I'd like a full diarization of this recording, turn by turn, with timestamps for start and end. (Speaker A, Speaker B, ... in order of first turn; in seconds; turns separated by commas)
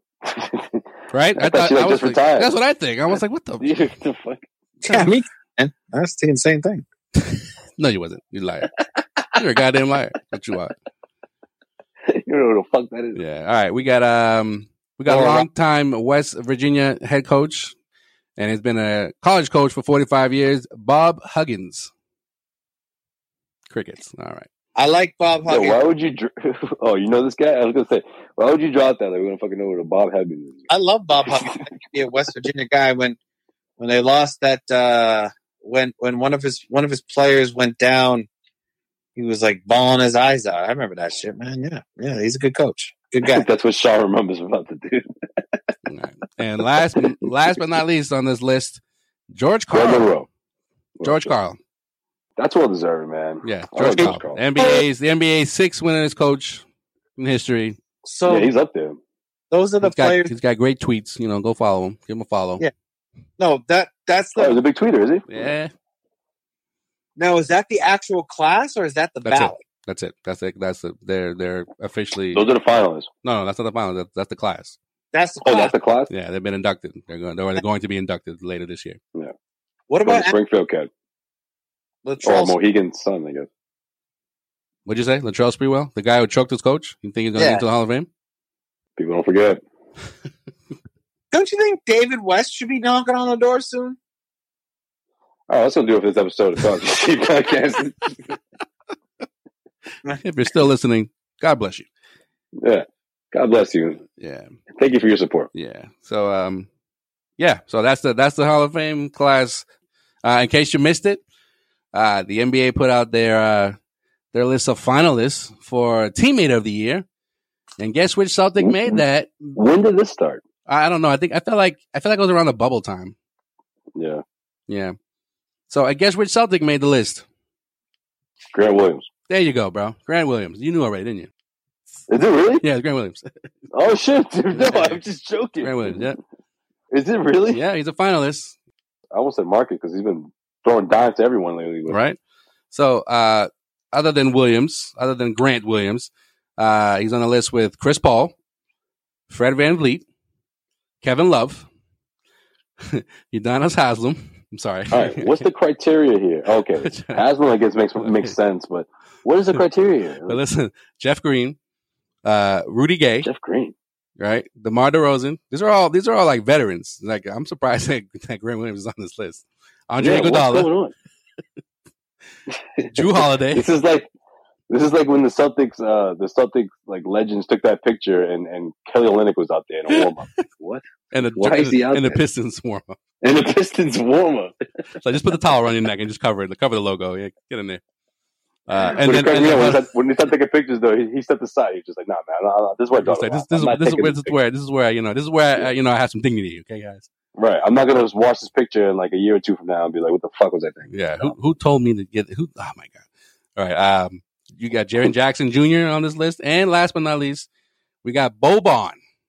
Speaker A: 0.2-0.8, Speaker B: 1.1-3.9, Speaker A: 1.4-2.5, Speaker A: 3.6-4.4, Speaker C: 4.8-6.8, Speaker B: 7.2-8.7, Speaker B: 9.3-10.7, Speaker A: 12.1-13.2, Speaker B: 13.2-17.7, Speaker C: 15.1-15.4, Speaker B: 18.4-21.9, Speaker B: 23.7-24.5, Speaker C: 24.8-25.8, Speaker A: 25.5-30.7, Speaker C: 30.7-33.2, Speaker A: 31.3-31.6, Speaker C: 33.8-38.3, Speaker C: 39.1-43.4, Speaker A: 43.2-45.1, Speaker B: 45.9-50.1, Speaker A: 49.7-50.3, Speaker A: 51.0-51.3, Speaker B: 51.0-51.6, Speaker A: 52.4-54.8, Speaker B: 53.4-56.6, Speaker B: 57.2-57.8, Speaker C: 58.0-58.5, Speaker A: 58.2-59.0, Speaker C: 59.5-60.3, Speaker B: 59.8-62.6, Speaker C: 63.4-64.6, Speaker A: 64.3-65.5, Speaker B: 65.3-65.7, Speaker C: 67.2-69.7, Speaker B: 69.2-72.5, Speaker A: 72.3-73.1, Speaker B: 73.2-74.8, Speaker C: 75.1-75.7, Speaker A: 75.4-76.1, Speaker B: 76.1-79.0, Speaker C: 79.9-80.3, Speaker A: 80.0-80.9, Speaker C: 82.0-82.5, Speaker A: 82.2-83.5, Speaker B: 84.8-88.1, Speaker C: 87.3-87.6, Speaker A: 89.0-89.6, Speaker C: 91.3-94.0, Speaker A: 95.5-98.3, Speaker B: 100.2-101.9, Speaker A: 102.6-104.0, Speaker B: 104.2-104.5, Speaker A: 104.8-105.5, Speaker B: 105.5-106.7, Speaker B: 107.4-109.7, Speaker B: 110.2-111.2, Speaker B: 111.9-113.8, Speaker B: 114.3-117.0, Speaker B: 117.8-119.6, Speaker A: 118.6-119.0, Speaker A: 119.5-120.4, Speaker B: 120.7-123.1, Speaker A: 123.9-124.2, Speaker B: 124.7-124.9, Speaker B: 125.7-127.2, Speaker A: 128.5-129.1, Speaker B: 129.3-131.3, Speaker A: 132.1-132.6, Speaker B: 132.6-133.3, Speaker A: 133.7-136.1, Speaker B: 134.5-135.0, Speaker B: 135.6-136.2, Speaker A: 136.9-137.6, Speaker B: 137.5-138.6, Speaker A: 139.1-142.0, Speaker B: 141.9-142.2, Speaker B: 142.7-148.3, Speaker B: 149.3-150.0, Speaker B: 151.0-151.7, Speaker B: 152.8-155.5, Speaker A: 154.9-160.4, Speaker B: 156.8-157.2, Speaker B: 158.0-158.3, Speaker B: 160.3-161.6, Speaker B: 162.2-163.3, Speaker A: 163.2-163.7, Speaker B: 164.2-170.7, Speaker A: 170.0-170.9, Speaker A: 172.5-174.1, Speaker B: 172.9-173.7, Speaker A: 174.7-182.2, Speaker B: 181.1-182.9, Speaker A: 183.2-184.5, Speaker B: 185.0-187.8, Speaker B: 188.7-189.9, Speaker A: 188.8-194.3, Speaker B: 193.0-197.1, Speaker A: 197.3-201.3, Speaker B: 200.9-203.0, Speaker B: 203.6-207.5, Speaker B: 208.0-209.0